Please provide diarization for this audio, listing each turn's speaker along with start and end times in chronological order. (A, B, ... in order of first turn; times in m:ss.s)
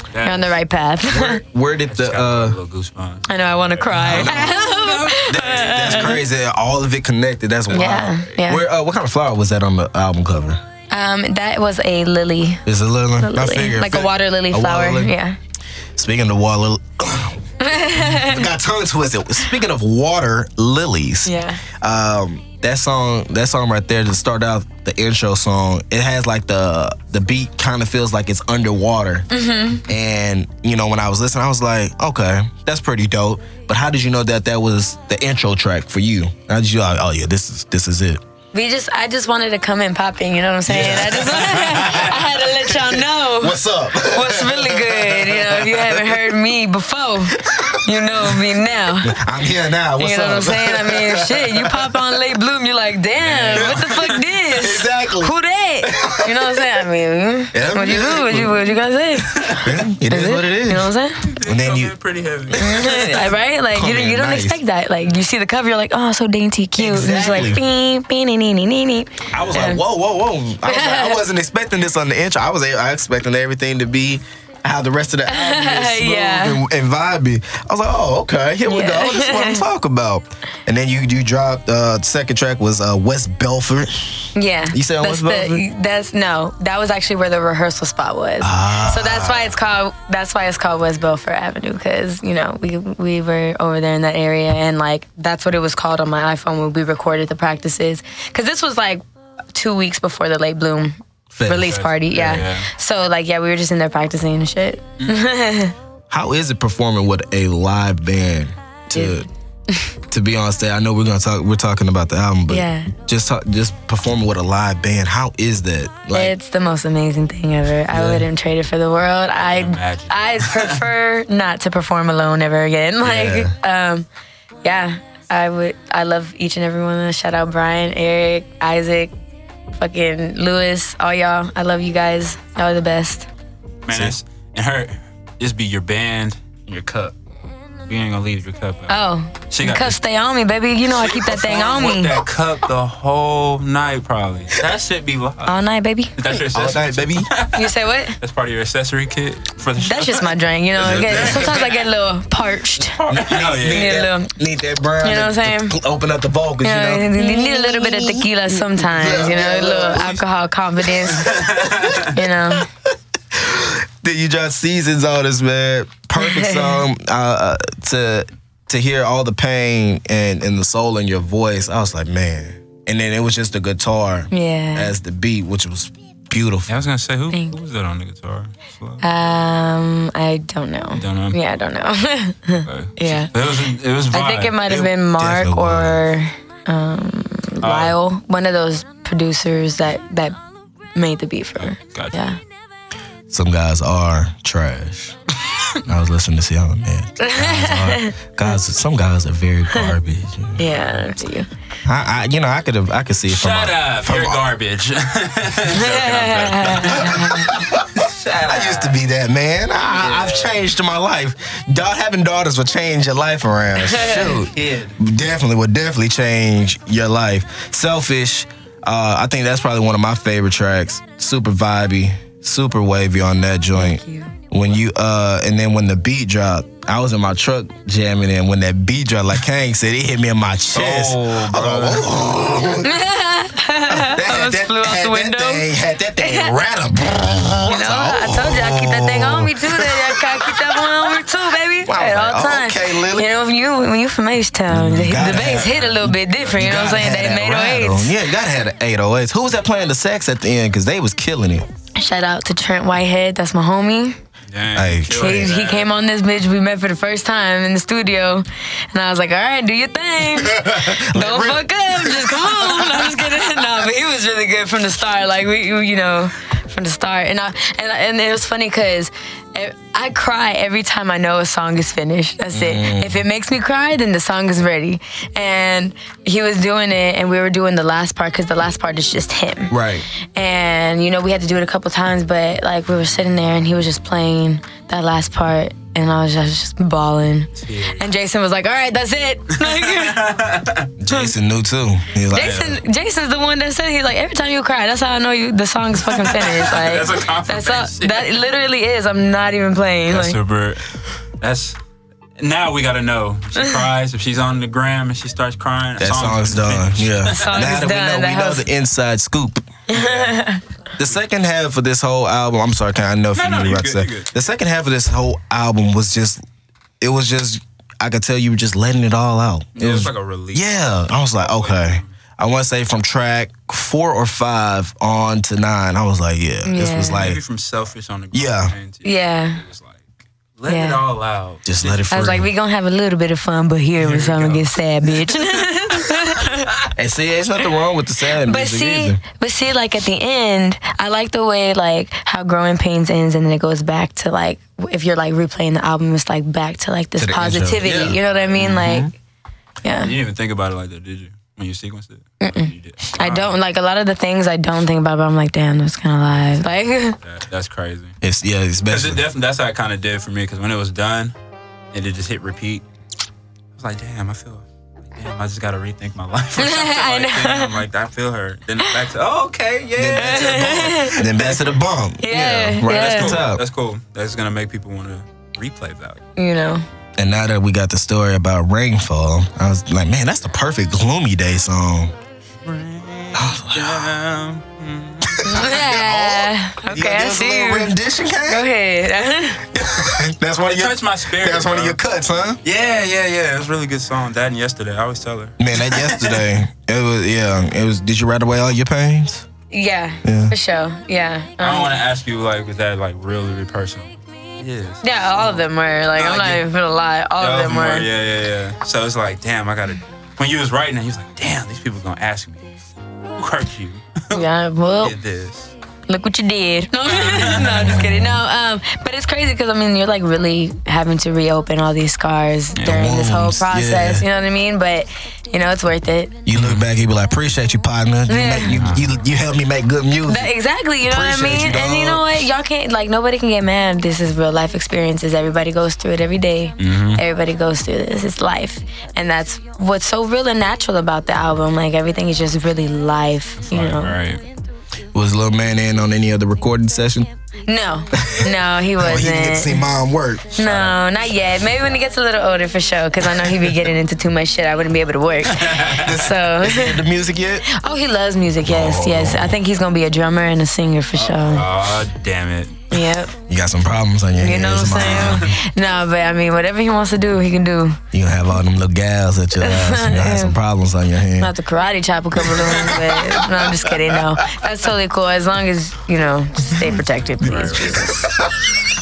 0:00.1-0:00.6 A
0:00.2-0:01.4 B
0:01.0-0:02.6 C
0:01.9-0:06.1 A
0:03.3-0:06.2 B
0:04.0-0:04.6 C
0:05.1-0:10.6 C
0:07.7-0:08.7 B
0:10.9-0:12.6 B
0:12.7-0:15.1 C
0:13.2-0:15.4 B
0:16.0-0:17.4 C
0:17.6-0:18.5 B
0:18.0-0:29.3 C
0:21.2-0:21.6 B
0:29.3-0:29.9 B
0:29.8-0:38.2 C
0:38.5-0:49.2 B
0:40.7-0:46.2 C
0:47.4-0:48.3 C
0:49.0-0:52.1 C
0:50.0-1:01.3 B
0:53.2-0:54.3 A
0:53.5-0:54.0 C
0:54.5-0:56.8 C
0:57.5-0:58.6 C
0:59.5-1:00.9 C
1:01.2-1:03.3 A
1:01.4-1:02.0 C
1:02.5-1:03.2 C
1:02.5-1:09.8 B
1:03.7-1:04.6 C
1:06.8-1:07.6 C
1:07.2-1:07.5 A
1:09.3-1:25.6 C
1:10.7-1:11.2 B
1:15.3-1:16.6 B
1:18.7-1:19.6 B
1:24.4-1:39.0 B
1:28.4-1:29.6 C
1:39.5-1:45.8 B
1:41.3-1:41.8 C
1:41.5-1:42.7 A
1:46.1-1:49.3 C
1:48.9-1:49.9 B
1:50.1-1:56.3 C
1:52.5-1:52.9 B
1:56.1-2:04.1 B
1:57.9-1:58.3 C
1:59.4-2:00.8 A
2:03.0-2:03.6 C
2:04.6-2:09.1 B
2:09.7-2:13.3 B
2:13.8-2:17.2 A
2:13.9-2:14.2 C
2:17.9-2:20.0 A
2:18.9-2:22.2 B
2:20.9-2:25.6 A
2:25.5-2:26.4 B
2:26.2-2:31.8 A
2:26.5-2:27.3 C
2:27.5-2:28.2 B
2:29.8-2:33.0 B
2:30.8-2:31.6 C
2:33.0-2:34.1 A
2:33.0-2:40.2 C
2:33.6-2:34.3 B
2:35.0-2:35.8 B
2:36.6-2:42.7 B
2:40.9-2:56.7 C
2:41.2-2:42.1 A
2:46.2-2:46.8 B
2:54.3-2:54.9 B
2:56.7-2:59.0 A
2:59.0-3:03.3 B
3:00.9-3:01.4 A
3:02.6-3:04.6 A
3:04.1-3:10.4 B
3:04.6-3:06.0 C
3:07.6-3:08.0 A
3:11.0-3:12.4 B
3:11.6-3:12.2 A
3:13.3-3:15.2 C
3:15.8-3:20.9 C
3:17.2-3:18.2 B
3:20.6-3:21.5 B
3:21.8-3:24.4 C
3:23.3-3:29.0 A
3:25.7-3:27.5 B
3:27.0-3:53.0 C
3:29.9-3:30.6 A
3:33.8-3:34.4 B
3:34.0-3:35.0 A
3:43.8-3:44.3 B
3:50.7-3:52.2 A
3:52.8-3:55.7 B
3:53.9-4:00.9 C
3:56.2-3:56.6 B
3:57.1-4:08.2 B
4:01.8-4:03.3 C
4:04.7-4:11.7 C
4:05.1-4:06.9 A
4:12.0-4:14.2 B
4:14.5-4:15.9 A
4:14.8-4:15.4 C
4:15.1-4:39.8 B
4:20.3-4:23.5 C
4:32.5-4:33.2 C
4:39.7-4:40.1 C
4:40.3-4:50.3 B
4:47.6-4:48.0 A
4:49.6-4:50.9 A
4:51.0-4:52.8 C
4:52.3-5:00.4 B
4:56.1-4:58.4 A
5:00.1-5:01.8 A
5:02.4-5:07.7 A
5:06.0-5:09.7 C
5:07.3-5:08.7 B
5:09.9-5:10.6 B
5:09.9-5:10.4 A
5:11.0-5:16.4 C
5:13.4-5:14.3 A
5:17.0-5:27.4 C
5:19.8-5:20.8 A
5:21.4-5:22.1 A
5:26.6-5:27.3 B
5:27.1-5:32.2 A
5:28.3-5:28.7 C
5:29.0-5:29.6 B
5:30.7-5:31.0 B
5:31.7-5:32.5 C
5:32.1-5:36.7 B
5:34.0-5:36.5 A
5:37.0-5:39.2 C
5:38.3-5:49.1 B
5:47.2-5:49.1 C
5:48.6-5:49.0 A
5:49.8-5:50.1 B
5:49.9-5:53.6 A
5:52.4-5:57.2 B
5:57.2-5:58.2 A
5:58.2-5:59.2 C
5:58.9-6:01.4 A
6:01.9-6:02.8 A
6:03.8-6:11.6 A
6:06.6-6:07.8 B
6:10.0-6:13.6 C
6:10.2-6:11.2 B
6:12.2-6:13.4 B
6:12.8-6:16.2 A
6:16.4-6:16.9 B
6:17.2-6:22.1 C
6:22.6-6:25.7 A
6:23.3-6:24.2 C
6:25.2-6:28.7 C
6:25.4-6:29.7 B
6:29.7-6:32.6 C
6:30.6-6:32.0 A
6:32.6-6:36.5 A
6:35.6-6:39.5 C
6:39.7-6:42.0 B
6:40.2-6:40.5 C
6:41.6-6:45.6 A
6:45.0-6:48.1 B
6:46.1-6:46.6 A
6:47.4-6:52.7 A
6:53.4-6:54.4 A
6:54.3-6:55.2 B
6:55.0-6:55.7 A
6:56.1-7:06.4 B
6:57.1-6:58.0 A
6:57.6-6:58.4 C
7:02.8-7:04.2 C
7:06.5-7:10.5 C
7:06.5-7:06.8 A
7:08.3-7:08.8 B
7:08.6-7:09.1 A
7:10.3-7:24.2 B
7:11.0-7:12.4 C
7:16.8-7:17.2 A
7:23.6-7:24.4 A
7:25.1-7:27.3 C
7:27.7-7:29.9 B
7:28.1-7:30.6 C
7:30.6-7:37.0 B
7:30.6-7:31.1 A
7:35.5-7:36.1 A
7:36.0-7:37.7 C
7:37.6-7:41.7 B
7:38.6-7:39.6 C
7:41.2-7:43.0 A
7:42.9-7:43.3 B
7:43.5-7:45.5 C
7:44.4-7:48.0 B
7:45.0-7:45.5 A
7:48.1-7:51.5 C
7:49.6-7:50.6 B
7:51.4-7:58.1 B
7:52.4-7:54.4 C
7:57.4-7:58.4 A
7:57.4-7:58.8 C